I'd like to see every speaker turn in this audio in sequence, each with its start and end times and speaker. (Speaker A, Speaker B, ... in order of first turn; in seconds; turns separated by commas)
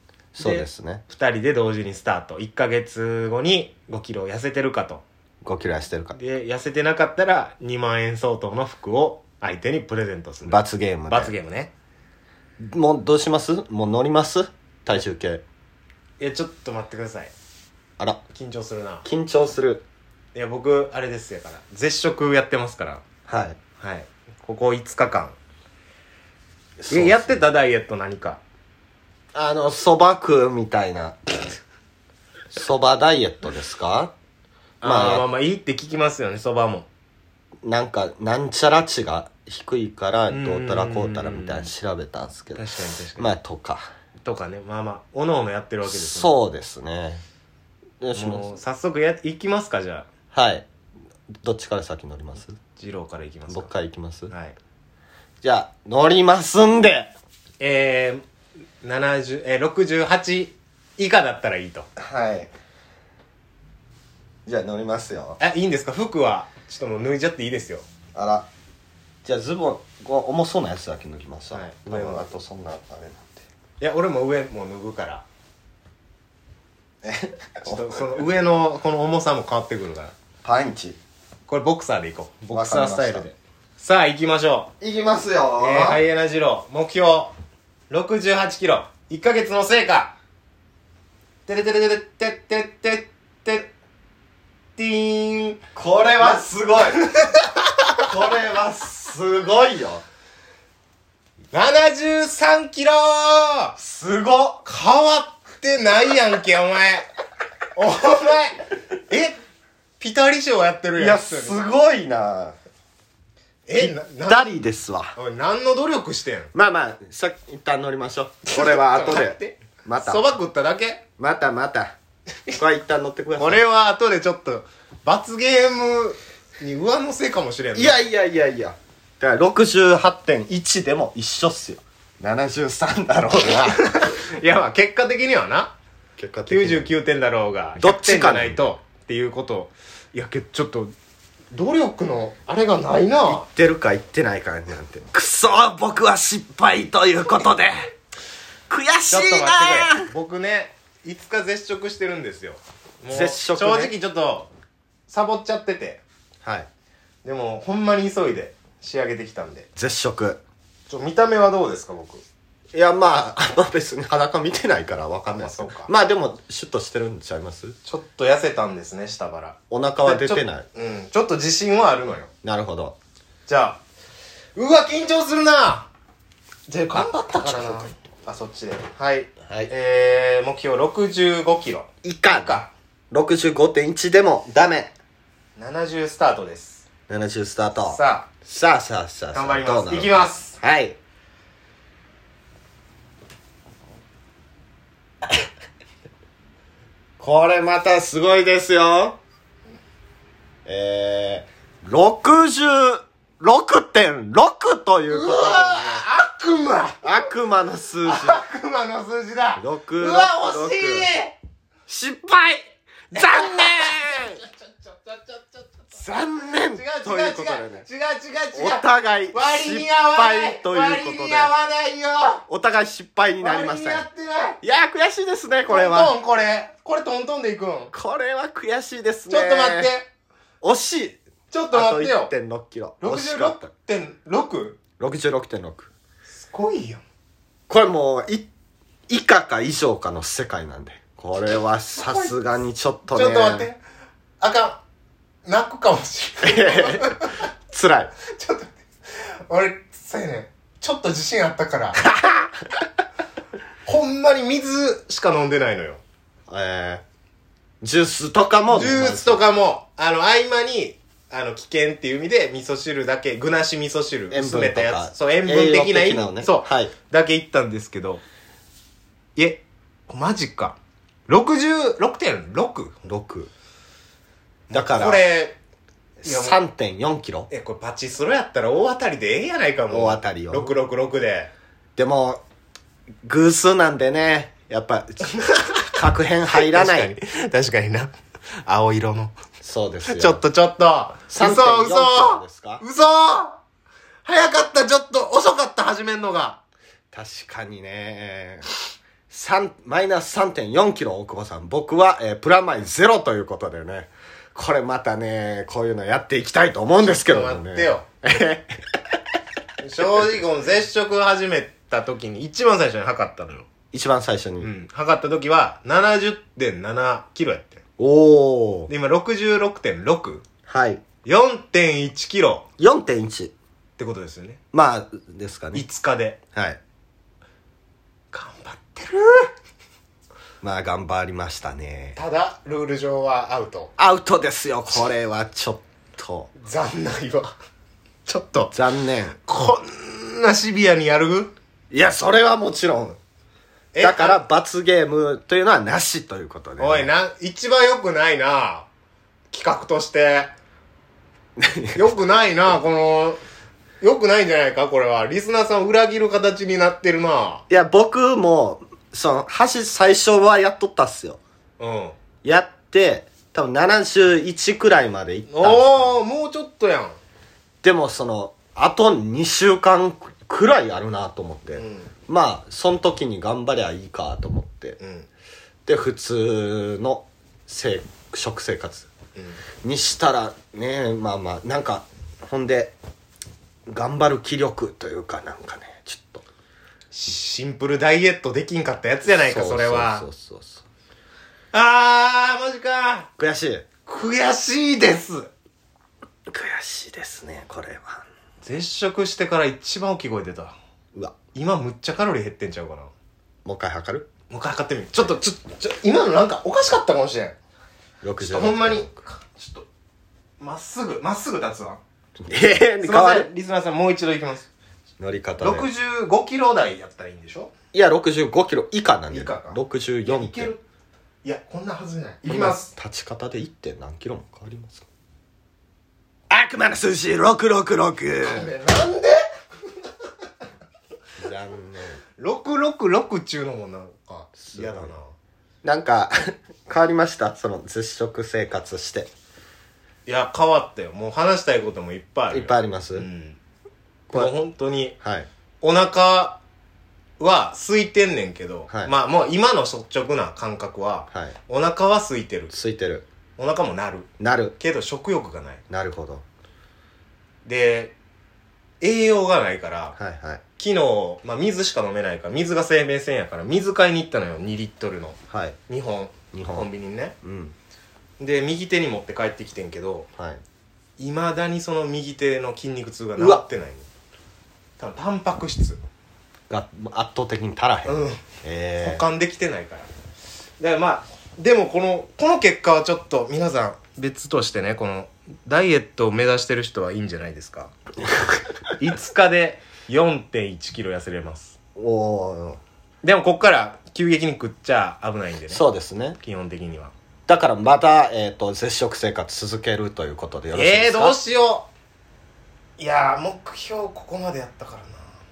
Speaker A: 0.3-1.0, Speaker B: 0.4-5.0, Speaker A: 5.4-6.2, Speaker B: 6.1-11.7, Speaker A: 10.4-11.3, Speaker A: 12.6-15.4, Speaker B: 16.2-17.3, Speaker B: 18.3-19.1, Speaker A: 19.1-19.8, Speaker B: 20.4-23.0, Speaker A: 23.3-23.6, Speaker B: 23.8-25.4, Speaker A: 26.8-27.4, Speaker B: 26.9-28.4, Speaker A: 29.3-31.5, Speaker A: 32.5-34.1, Speaker A: 34.8-35.3, Speaker B: 34.8-36.9, Speaker A: 37.6-43.9, Speaker B: 40.3-41.7, Speaker B: 42.5-43.3, Speaker B: 44.2-46.3, Speaker A: 45.9-47.2, Speaker A: 48.0-48.5, Speaker B: 48.1-50.1, Speaker A: 50.3-50.7, Speaker A: 51.4-52.6, Speaker B: 52.8-53.7, Speaker A: 53.5-54.3, Speaker B: 54.3-54.6, Speaker A: 55.4-57.1, Speaker B: 57.6-58.2, Speaker B: 58.8-61.9, Speaker A: 62.0-62.5, Speaker A: 64.5-65.4, Speaker B: 65.4-67.8, Speaker A: 68.2-68.5, Speaker A: 69.2-73.4, Speaker B: 71.5-72.3, Speaker B: 73.8-75.2, Speaker A: 77.0-78.3, Speaker B: 77.7-80.1, Speaker A: 80.4-81.0, Speaker B: 81.5-84.7, Speaker A: 82.5-83.3, Speaker A: 84.8-86.0, Speaker B: 85.6-87.3, Speaker B: 87.9-90.2, Speaker B: 91.5-93.7, Speaker B: 94.8-95.6, Speaker A: 95.8-97.0, Speaker B: 97.0-97.5, Speaker A: 98.0-100.0, Speaker B: 101.5-103.8, Speaker A: 103.8-104.6, Speaker B: 104.7-107.1, Speaker B: 107.7-109.4, Speaker B: 110.0-111.6, Speaker A: 111.0-112.6, Speaker B: 113.7-114.5, Speaker A: 113.7-115.1, Speaker B: 115.2-116.5, Speaker A: 116.5-120.2, Speaker B: 118.5-121.0, Speaker A: 121.2-122.0, Speaker A: 122.5-123.6, Speaker B: 123.4-128.0, Speaker A: 127.8-133.9, Speaker B: 133.6-135.7, Speaker A: 136.2-136.9, Speaker B: 136.5-140.9, Speaker A: 137.8-138.6, Speaker B: 141.5-143.4, Speaker A: 143.3-147.9, Speaker A: 148.7-150.1, Speaker B: 149.1-154.5, Speaker A: 153.1-153.9, Speaker B: 155.1-156.0, Speaker A: 156.4-156.7, Speaker B: 157.2-159.7, Speaker A: 159.8-160.4, Speaker B: 160.9-162.2, Speaker A: 162.7-167.8, Speaker B: 165.3-165.9, Speaker B: 167.8-172.3, Speaker A: 169.7-170.7, Speaker A: 172.4-173.0, Speaker B: 173.5-173.8, Speaker B: 174.6-175.9, Speaker B: 176.7-182.7, Speaker A: 176.9-177.9, Speaker A: 182.0-182.6, Speaker A: 183.1-184.9, Speaker B: 185.6-186.9, Speaker A: 187.1-191.0, Speaker B: 187.8-188.3, Speaker B: 189.3-190.6, Speaker A: 197.2-199.2, Speaker A: 200.7-206.1, Speaker B: 205.1-207.3, Speaker A: 207.0-208.4, Speaker B: 208.1-211.4, Speaker A: 209.6-211.1, Speaker A: 211.9-214.4, Speaker B: 213.1-216.0, Speaker A: 215.9-217.9, Speaker B: 216.7-222.4, Speaker A: 218.5-221.5, Speaker A: 222.5-224.1, Speaker B: 223.4-224.6, Speaker A: 224.6-226.2, Speaker B: 225.7-227.9, Speaker A: 227.9-229.9, Speaker B: 229.3-230.1, Speaker A: 230.6-231.2, Speaker B: 231.5-232.3, Speaker A: 231.7-233.7, Speaker B: 233.0-234.8, Speaker A: 235.0-235.9, Speaker B: 236.3-237.0, Speaker A: 237.7-238.5, Speaker A: 239.1-243.7, Speaker B: 242.0-242.4, Speaker B: 243.1-243.8, Speaker B: 244.4-244.8, Speaker B: 245.5-247.5, Speaker A: 246.4-248.1, Speaker B: 248.3-252.0, Speaker A: 252.1-252.5, Speaker B: 253.8-256.0, Speaker A: 256.5-257.0, Speaker A: 257.8-259.4, Speaker B: 258.7-268.2, Speaker A: 264.3-266.9, Speaker B: 269.4-270.8, Speaker B: 271.3-273.1, Speaker A: 273.1-273.5, Speaker B: 274.7-275.6, Speaker A: 274.7-275.2, Speaker A: 276.2-277.5, Speaker B: 276.2-276.6, Speaker B: 277.5-281.5, Speaker A: 279.9-280.7, Speaker A: 282.0-282.4, Speaker A: 283.2-285.3, Speaker B: 285.4-285.9, Speaker A: 285.9-287.1, Speaker B: 286.5-289.4, Speaker A: 289.6-290.4, Speaker B: 290.1-293.6, Speaker A: 291.3-292.8, Speaker B: 294.2-296.6, Speaker A: 297.1-298.7, Speaker A: 299.3-308.8, Speaker B: 307.0-308.1, Speaker B: 309.8-313.7, Speaker A: 313.9-314.7, Speaker B: 314.6-317.8, Speaker A: 318.0-318.9, Speaker B: 318.9-320.4, Speaker A: 320.7-321.0, Speaker B: 321.2-322.7, Speaker A: 322.8-323.5, Speaker B: 324.0-324.6, Speaker A: 324.7-325.9, Speaker B: 325.7-326.4, Speaker A: 326.5-326.8, Speaker B: 328.3-329.5, Speaker A: 330.6-332.2, Speaker B: 332.2-333.9, Speaker A: 334.0-336.5, Speaker B: 336.6-337.6, Speaker B: 338.3-338.8, Speaker A: 338.7-339.4, Speaker B: 339.4-341.5, Speaker A: 341.9-343.2, Speaker B: 343.9-344.4, Speaker A: 344.0-347.1, Speaker B: 346.8-348.9, Speaker B: 349.5-350.5, Speaker A: 351.6-352.1, Speaker B: 351.9-353.4, Speaker B: 354.0-357.6, Speaker A: 357.7-361.4, Speaker B: 361.8-362.2, Speaker A: 362.4-366.2, Speaker B: 365.5-367.2, Speaker A: 367.8-375.0, Speaker B: 371.8-372.1, Speaker B: 375.0-375.3, Speaker A: 375.9-379.1, Speaker B: 379.4-379.6, Speaker A: 379.8-383.0, Speaker A: 383.9-386.4, Speaker B: 387.1-390.3, Speaker A: 389.3-390.8, Speaker B: 391.7-393.3, Speaker A: 393.4-393.9, Speaker B: 394.1-395.5, Speaker A: 396.5-398.2, Speaker B: 398.6-400.8, Speaker B: 401.5-403.1, Speaker A: 403.6-404.3, Speaker B: 404.5-407.6, Speaker A: 408.2-409.1, Speaker B: 408.4-409.9, Speaker B: 410.6-412.0, Speaker A: 412.4-413.5, Speaker B: 413.0-414.7, Speaker A: 415.2-415.9, Speaker B: 415.6-417.7, Speaker A: 417.9-420.7, Speaker B: 419.3-420.8, Speaker B: 421.4-422.9, Speaker A: 422.4-425.1, Speaker A: 426.5-428.7, Speaker B: 428.4-429.4, Speaker A: 431.4-432.2, Speaker B: 432.4-435.3, Speaker A: 434.6-435.1, Speaker A: 435.8-439.3, Speaker B: 440.3-443.6, Speaker A: 442.5-443.3, Speaker A: 444.3-444.6, Speaker B: 444.3-445.2, Speaker A: 445.2-445.5, Speaker B: 445.8-446.6, Speaker B: 447.4-452.7, Speaker A: 451.3-451.6, Speaker A: 452.7-453.3, Speaker B: 453.6-455.8, Speaker A: 454.4-454.8, Speaker A: 455.9-456.4, Speaker B: 457.6-458.1, Speaker B: 459.0-460.2, Speaker A: 460.2-460.6, Speaker B: 460.8-465.4, Speaker A: 465.5-465.8, Speaker B: 465.9-467.4, Speaker A: 466.5-466.9, Speaker A: 467.4-467.8, Speaker B: 468.4-470.3, Speaker B: 471.2-474.1, Speaker A: 473.4-473.6, Speaker B: 475.0-476.0, Speaker A: 476.7-479.3, Speaker B: 478.1-478.4, Speaker B: 479.0-480.1, Speaker B: 480.8-487.9, Speaker B: 489.0-491.8, Speaker A: 492.0-492.8, Speaker B: 493.2-495.8, Speaker A: 495.7-496.4, Speaker B: 496.4-497.1, Speaker A: 497.5-501.4, Speaker B: 500.7-501.9, Speaker B: 503.0-505.3